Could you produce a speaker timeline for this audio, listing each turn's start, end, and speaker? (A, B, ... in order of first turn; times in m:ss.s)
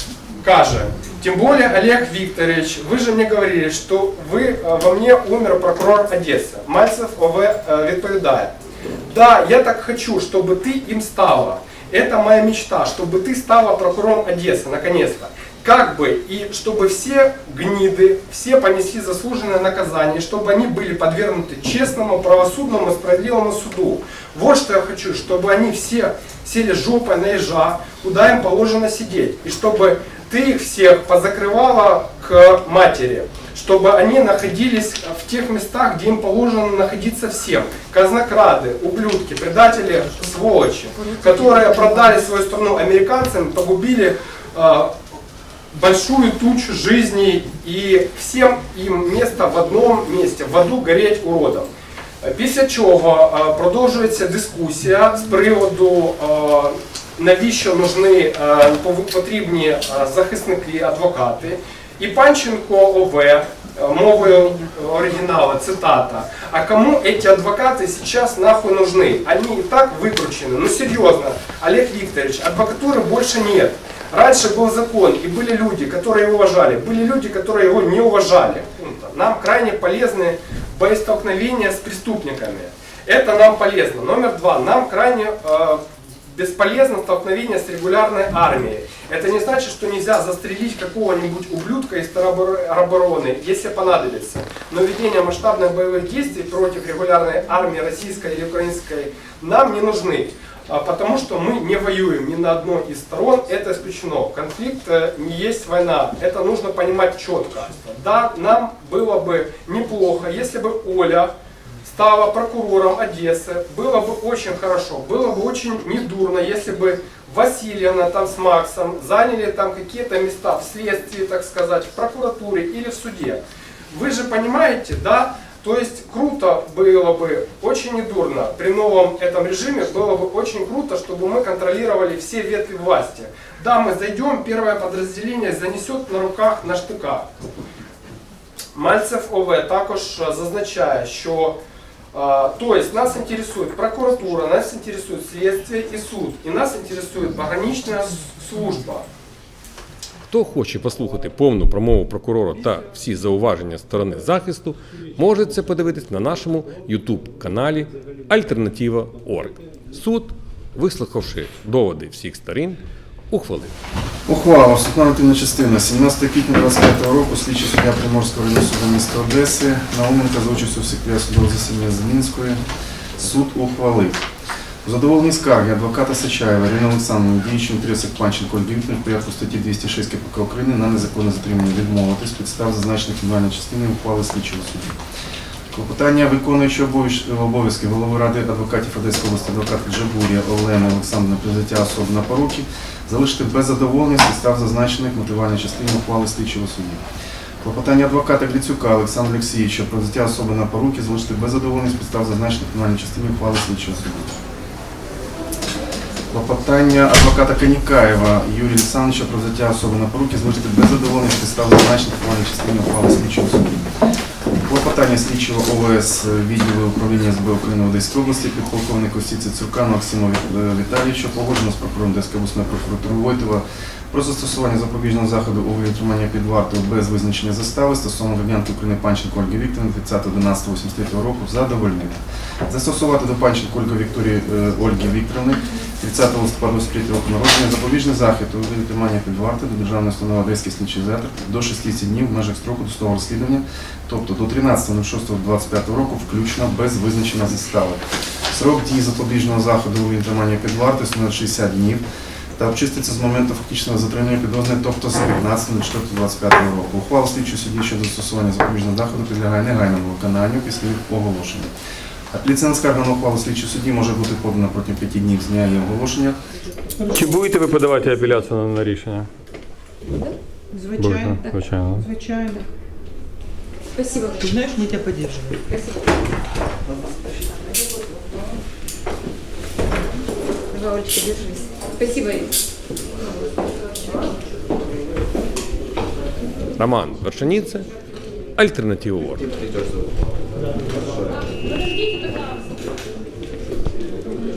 0:00.4-0:44.9 A
0:41.0-0:42.1 B
0:45.7-1:51.3 A
1:51.8-2:17.2 A
2:18.7-2:21.6 A
2:22.1-2:29.0 A
2:30.3-2:43.7 C
2:44.3-2:52.6 D
2:53.2-2:54.2 D
2:54.8-3:05.0 D
3:05.7-3:17.0 D
3:17.6-3:24.3 D
3:26.3-3:33.9 D
3:34.6-4:12.0 D
4:12.6-4:21.7 D
4:22.3-4:26.4 D
4:27.1-4:29.3 E
4:30.1-4:30.4 B
4:30.7-4:31.2 F
4:31.0-4:32.1 E
4:32.1-4:32.5 F
4:32.4-4:32.7 B
4:34.0-4:34.9 B
4:34.5-4:35.6 F
4:35.7-4:36.0 B
4:40.7-4:42.5 B
4:46.8-4:47.9 C
4:48.6-4:49.5 C